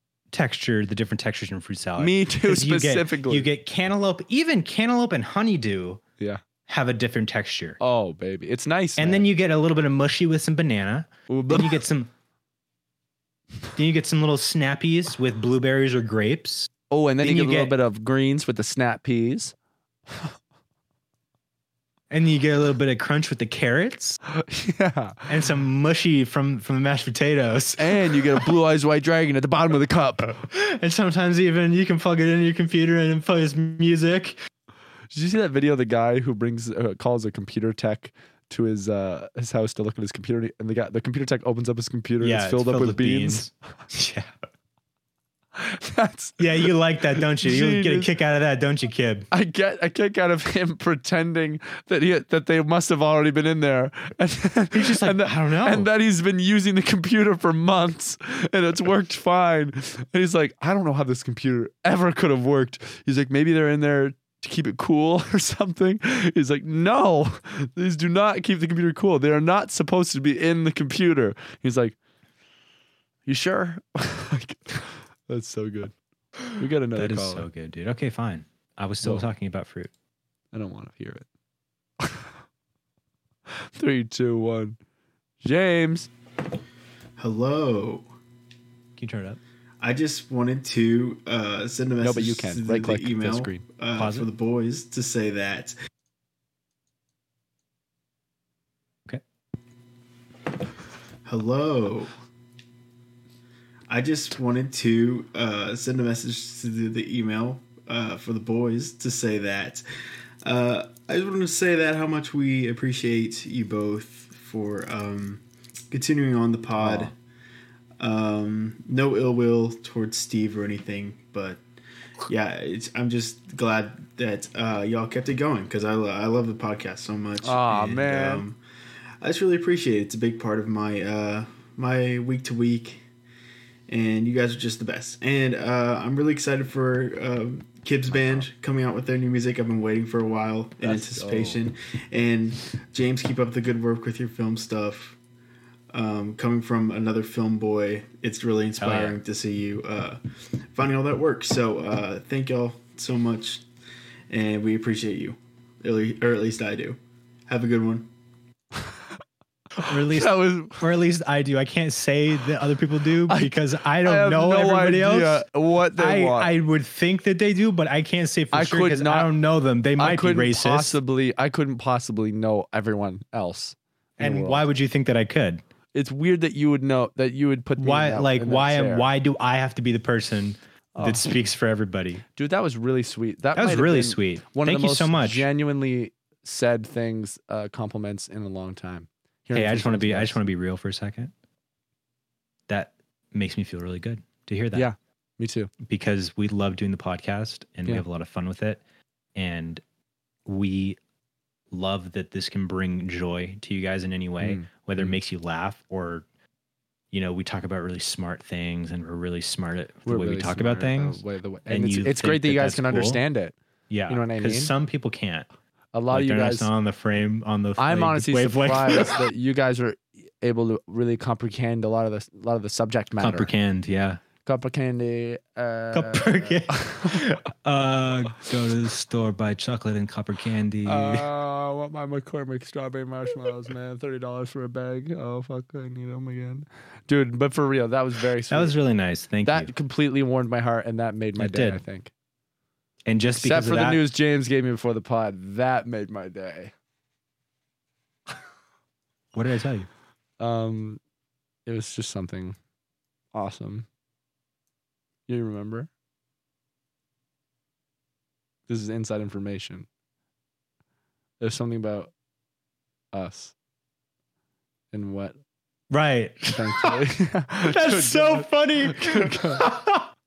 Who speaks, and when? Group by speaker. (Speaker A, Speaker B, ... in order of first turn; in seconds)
Speaker A: 0.3-6.0, 6.7-7.8, 9.0-12.1, 13.7-16.7, 17.2-17.8, 22.1-24.2, 25.3-28.5, 30.4-34.4, 42.2-44.3, 46.4-49.3, 54.7-55.9, 76.9-79.9, 89.0-89.4, 93.9-94.3, 148.8-149.2, 159.8-165.4, 165.9-171.0, 174.2-175.6, 177.8-182.2, 183.5-185.5, 189.5-191.3, 192.7-194.9, 195.8-198.8, 199.3-199.8, 200.4-201.0, 201.7-206.2, 207.1-213.2, 213.9-215.5, 216.1-219.2, 223.2-224.2, 225.9-231.3, 238.5-239.7, 241.4-241.8, 243.1-244.0, 249.3-249.9, 265.9-266.9, 267.6-270.1
Speaker B: 2.0-3.5, 7.8-9.2, 11.3-11.8, 16.9-19.5, 24.3-25.2, 27.8-30.4, 35.1-43.5, 45.6-48.1, 49.3-72.0, 73.2-75.9, 76.5-77.5, 80.5-81.2, 82.0-82.2, 83.8-84.8, 85.4-86.1, 92.0-93.6, 116.8-117.1, 127.4-128.4, 138.1-138.4, 140.8-141.6, 159.8-160.8, 163.3-166.5, 168.5-169.3, 170.0-174.7, 175.9-179.1, 180.9-181.3, 182.3-190.4, 194.7-195.7, 204.4-205.2, 210.1-213.5, 214.1-214.7, 215.9-216.7, 217.8-223.5, 224.4-227.2, 230.8-238.8, 239.4-242.1, 243.3-246.7, 250.4-251.0, 251.7-252.6, 253.3-253.9, 255.3-255.9, 258.7-259.9, 261.4-262.1, 263.1-263.5, 264.9-265.4, 266.5-269.6
Speaker C: 87.2-88.0, 89.8-95.7, 101.2-102.1, 103.9-109.8, 110.4-117.1, 118.0-121.6, 122.3-128.6, 129.2-133.0, 133.9-145.2, 145.9-150.2, 150.7-153.6, 154.3-158.1